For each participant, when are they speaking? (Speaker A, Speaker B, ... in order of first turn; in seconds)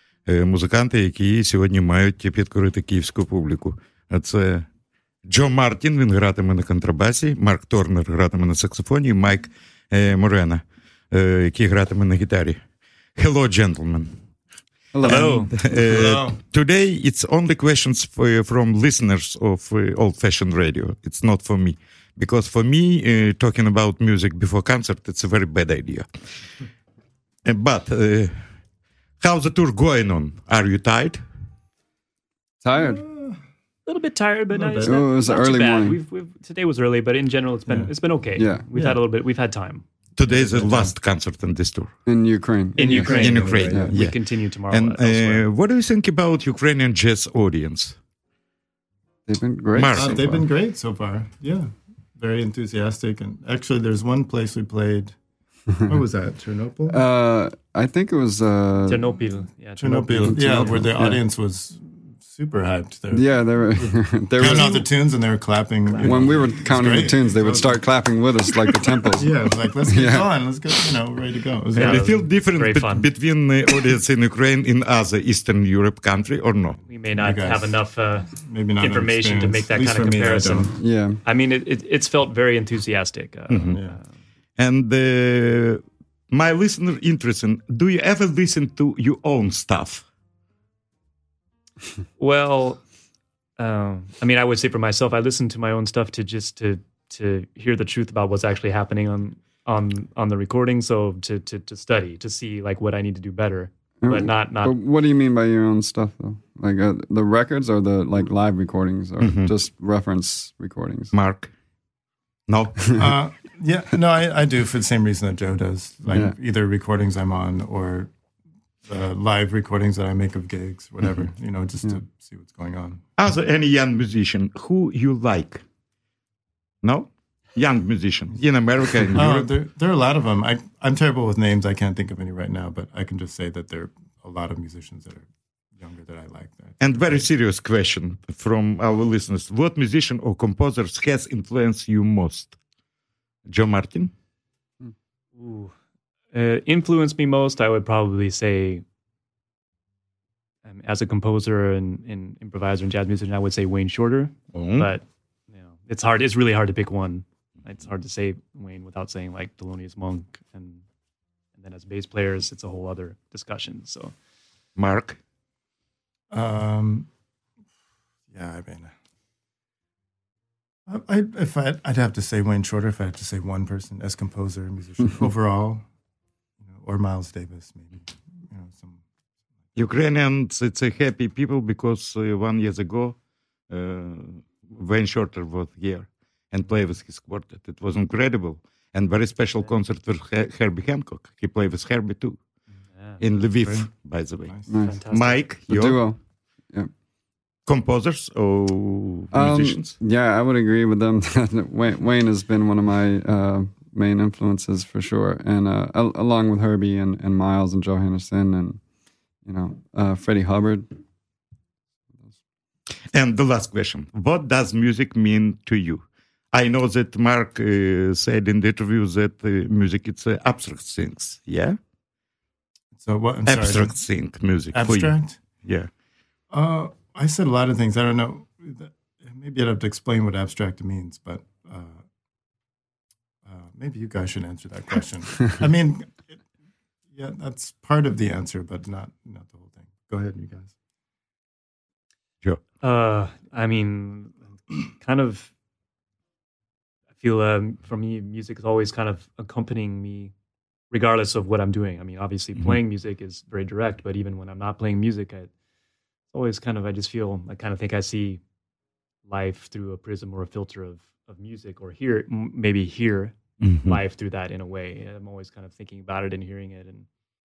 Speaker A: 0.2-4.7, 5.3-12.6, 13.2-14.1, 15.0-26.1, 27.4-28.3, 29.2-31.2, 40.2-41.9, 42.8-44.2, 44.7-48.0, 49.7-50.4, 60.2-60.7, 64.4-64.9, 71.7-76.8, 84.6-90.1, 109.2-109.5, 111.1-111.5, 112.5-113.2, 123.2-125.6, 126.8-129.6, 136.8-142.6, 143.5-144.1, 154.5-154.9, 164.8-165.2, 179.7-183.2, 183.7-192.4, 193.2-196.0, 197.7-199.9, 213.1-221.7, 223.4-225.9, 263.6-264.0
Speaker B: 14.9-15.9, 32.6-33.0, 34.8-36.0, 38.4-38.6, 42.0-44.0, 49.3-50.5, 56.9-59.1, 60.2-61.1, 63.1-64.9, 66.0-70.3, 80.8-81.2, 104.0-111.1, 194.7-195.0, 195.7-196.2, 199.3-208.8, 209.4-210.9
Speaker C: 15.0-15.5, 33.9-39.8, 42.8-45.5, 58.9-61.2, 71.8-73.0, 76.9-84.0, 92.2-92.8, 93.6-104.8, 145.3-145.7, 146.3-148.8, 150.6-160.8, 161.5-164.1, 192.9-193.3, 194.8-195.4, 242.8-244.3, 245.0-245.5, 247.2-250.3, 250.9-255.5, 256.3-258.4, 259.2-267.1
Speaker D: 15.9-16.3, 33.0-33.4, 40.5-40.8, 43.1-43.8, 49.9-55.1, 55.9-57.0, 59.8-63.2, 64.5-67.7, 69.2-72.2, 77.3-77.6, 78.4-80.7, 83.7-84.0, 113.0-118.1, 118.8-123.0, 129.1-135.2, 135.8-136.8, 166.3-167.1, 168.3-168.9, 170.9-175.8, 176.8-178.0, 178.5-179.0, 223.0-223.9, 224.7-225.3, 226.5-232.0, 233.4-236.3, 237.1-240.7